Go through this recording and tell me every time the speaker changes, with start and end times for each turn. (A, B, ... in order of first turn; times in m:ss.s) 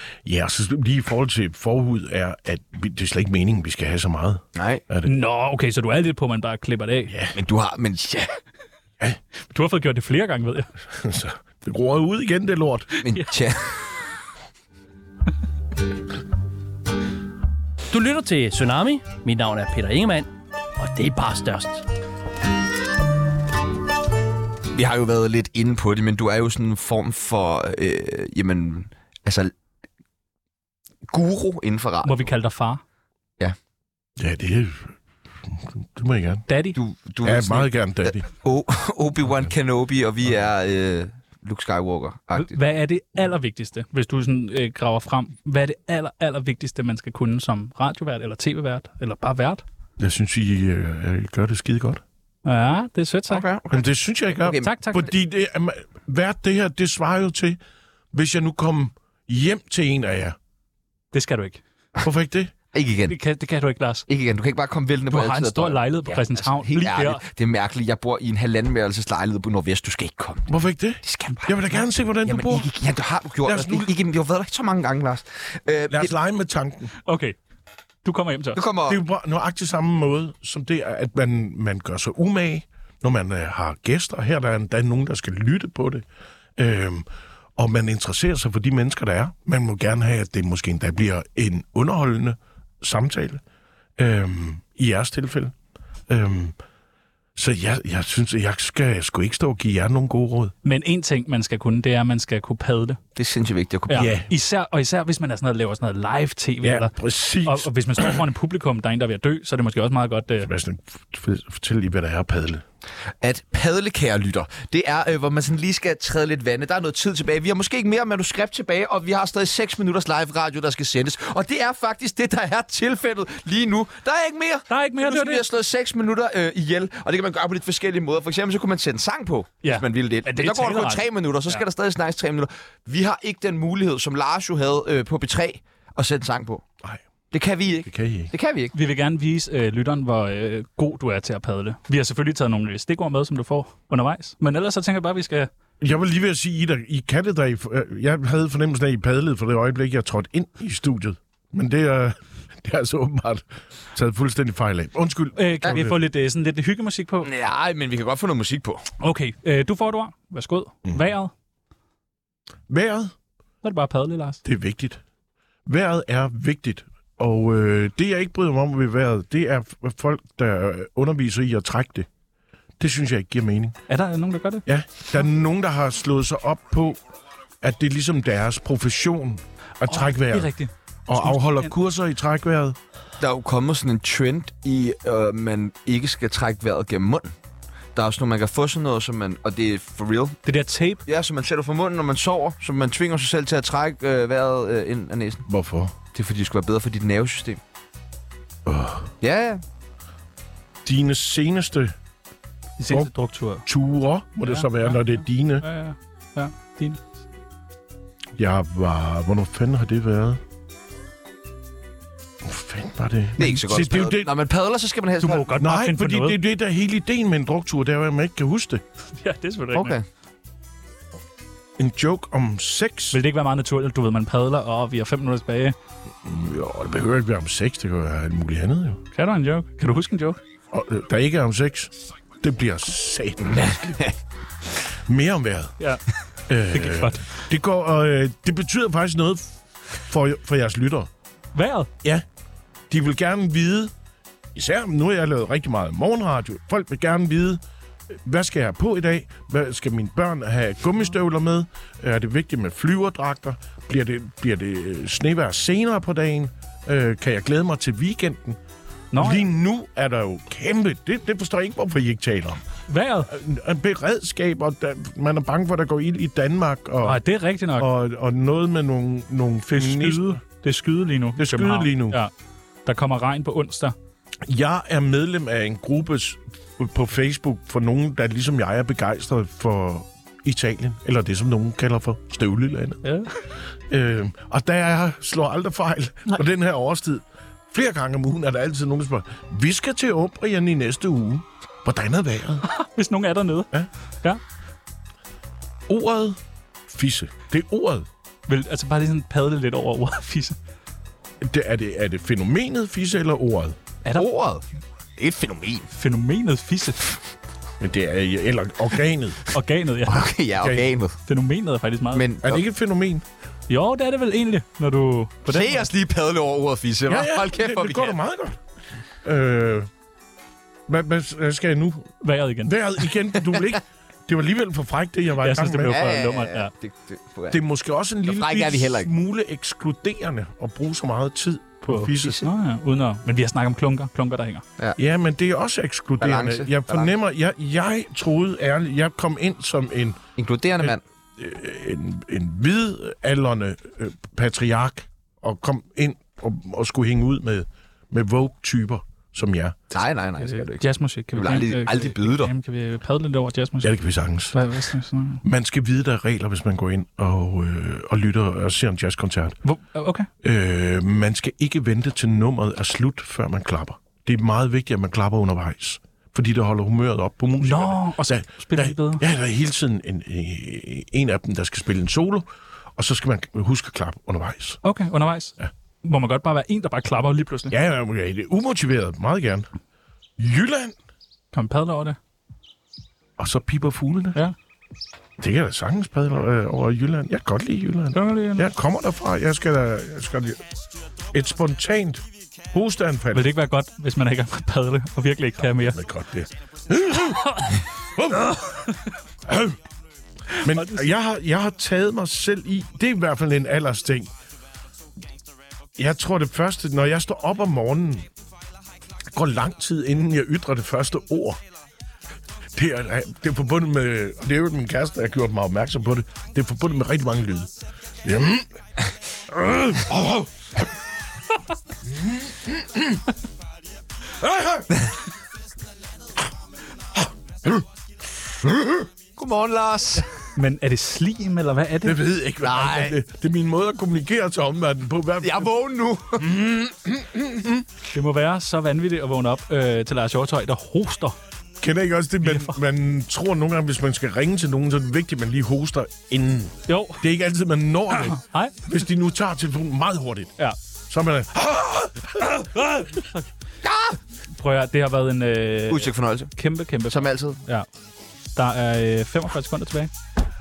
0:00.2-0:05.1 A
0:04.6-0:04.8 B
0:05.0-0:07.1 C
0:07.1-0:07.4 A
0:07.3-0:08.4 B
0:09.5-0:10.7 C
0:10.9-0:12.9 A
0:13.0-0:13.8 B
0:17.9-0:20.3 D
0:20.8-0:21.8 D
0:24.7-0:29.5 B
0:31.1-0:32.3 B
0:32.0-0:32.8 C
0:34.2-0:36.5 A
0:36.5-0:36.8 C
0:36.8-0:42.6 B
0:37.2-0:38.2 A
0:42.4-0:49.6 C
0:50.0-0:52.0 A
0:52.4-0:53.4 C
0:53.3-0:53.8 B
0:53.7-0:57.6 A
0:54.4-0:54.7 B
0:54.6-0:55.1 C
0:58.1-1:00.4 A
1:01.1-1:01.6 C
1:02.0-1:02.5 A
1:02.7-1:03.2 B
1:03.1-1:04.0 C
1:04.1-1:16.1 B
1:05.1-1:07.2 C
1:10.5-1:12.7 A
1:13.4-1:13.9 A
1:15.9-1:16.9 A
1:17.1-1:17.4 C
1:18.0-1:18.6 C
1:18.6-1:19.0 B
1:18.9-1:26.0 A
1:26.6-1:33.4 A
1:34.0-1:35.5 A
1:36.1-1:36.6 A
1:37.4-1:40.5 A
1:40.6-1:43.0 C
1:43.2-1:44.2 B
1:43.9-1:50.5 C
1:43.9-1:44.3 A
1:46.6-1:48.2 A
1:50.4-1:52.6 A
1:53.2-2:16.6 B
2:04.7-2:05.4 C
2:09.6-2:11.6 C
2:17.3-2:18.7 B
2:17.8-2:18.3 A
2:18.7-2:25.5 C
2:25.8-2:36.0 A
2:35.4-2:37.3 C
2:37.2-2:38.9 B
2:39.0-2:41.3 C
2:42.7-2:43.1 A
2:43.6-2:44.4 C
2:44.4-2:45.0 A
2:45.7-2:52.1 A
2:52.8-2:53.8 A
2:53.9-2:54.6 C
2:54.7-2:57.0 A
2:57.6-3:00.5 A
2:59.9-3:01.7 C
3:01.1-3:02.8 A
3:03.2-3:07.4 B
3:08.0-3:10.4 B
3:10.4-3:11.0 C
3:11.1-3:15.4 B
3:15.5-3:16.0 A
3:16.1-3:17.6 B
3:18.7-3:19.1 A
3:19.2-3:19.6 B
3:20.8-3:21.9 A
3:22.8-3:23.7 C
3:23.6-3:25.6 A
3:24.4-3:27.1 C
3:28.4-3:30.4 A
3:32.4-3:34.3 A
3:33.4-3:35.5 B
3:35.2-3:36.4 C
3:35.6-3:38.8 A
3:39.2-3:40.0 C
3:39.7-3:40.0 B
3:41.8-3:43.2 A
3:43.1-3:45.8 C
3:46.2-3:49.0 A
3:49.1-3:50.4 C
3:50.7-3:54.0 A
3:53.6-3:54.1 B
3:55.0-3:55.8 A
3:56.5-4:01.1 A
3:56.7-3:57.4 C
4:01.5-4:01.9 C
4:02.9-4:03.9 A
4:04.6-4:07.6 A
4:08.2-4:18.6 A
4:19.1-4:19.5 C
4:19.2-4:22.6 A
4:22.9-4:23.3 C
4:23.3-4:27.2 A
4:27.0-4:27.9 C
4:27.7-4:30.4 A
4:29.7-4:32.3 C
4:31.4-4:32.2 A
4:32.9-4:34.0 C
4:34.4-4:43.0 A
4:43.0-4:43.3 C
4:43.9-4:52.6 A
4:52.6-4:53.7 C
4:55.9-4:58.1 A
4:58.5-5:00.6 C
5:01.4-5:03.8 A
5:04.2-5:04.6 B
5:05.2-5:05.9 B
5:05.9-5:07.1 C
5:07.8-5:09.4 A
5:09.5-5:10.3 C
5:10.1-5:11.2 B
5:10.6-5:10.9 A
5:11.3-5:12.2 C
5:12.1-5:12.6 B
5:12.4-5:13.2 A
5:13.7-5:15.9 C
5:15.5-5:18.2 B
5:17.1-5:18.6 A
5:19.2-5:19.9 A
5:20.9-5:22.1 A
5:22.2-5:22.7 C
5:22.6-5:26.0 A
5:25.4-5:26.7 C
5:25.9-5:27.6 B
5:27.5-5:32.5 A
5:28.3-5:29.1 B
5:31.9-5:34.6 C
5:35.0-5:40.2 A
5:36.2-5:37.1 B
5:40.4-5:41.0 B
5:40.8-5:49.8 A
5:49.9-5:52.5 B
5:50.4-5:53.9 C
5:53.8-5:54.6 A
5:54.5-5:55.4 C
5:55.4-5:59.6 A
5:59.6-6:00.3 C
6:00.4-6:14.8 A
6:07.6-6:09.2 C
6:14.8-6:17.8 C
6:17.7-6:19.7 A
6:20.4-6:21.0 A
6:21.5-6:22.2 C
6:23.4-6:24.4 A
6:25.4-6:30.6 A
6:28.1-6:28.7 C
6:31.3-6:33.6 A
6:33.3-6:36.0 C
6:35.9-6:38.7 A
6:37.2-6:37.8 C
6:39.4-6:39.8 A
6:40.5-6:41.1 C
6:40.6-6:44.3 A
6:46.0-6:48.3 A
6:49.3-6:51.6 A
6:52.7-6:57.7 A
6:58.2-6:58.7 A
6:59.5-7:00.5 A
7:02.1-7:03.0 A
7:04.4-7:04.9 A
7:08.6-7:09.0 A
7:09.4-7:10.3 B
7:10.6-7:12.3 C
7:12.0-7:15.7 A
7:12.6-7:13.2 B
7:15.4-7:16.6 B
7:16.4-7:17.8 A
7:18.1-7:21.4 C
7:21.8-7:30.6 A
7:22.4-7:22.8 C
7:26.9-7:27.2 C
7:28.1-7:28.8 C
7:31.1-7:32.7 A
7:32.6-7:33.4 C
7:33.8-7:34.2 B
7:34.6-7:37.9 C
7:35.9-7:36.5 B
7:37.1-7:37.6 B
7:38.6-7:40.1 C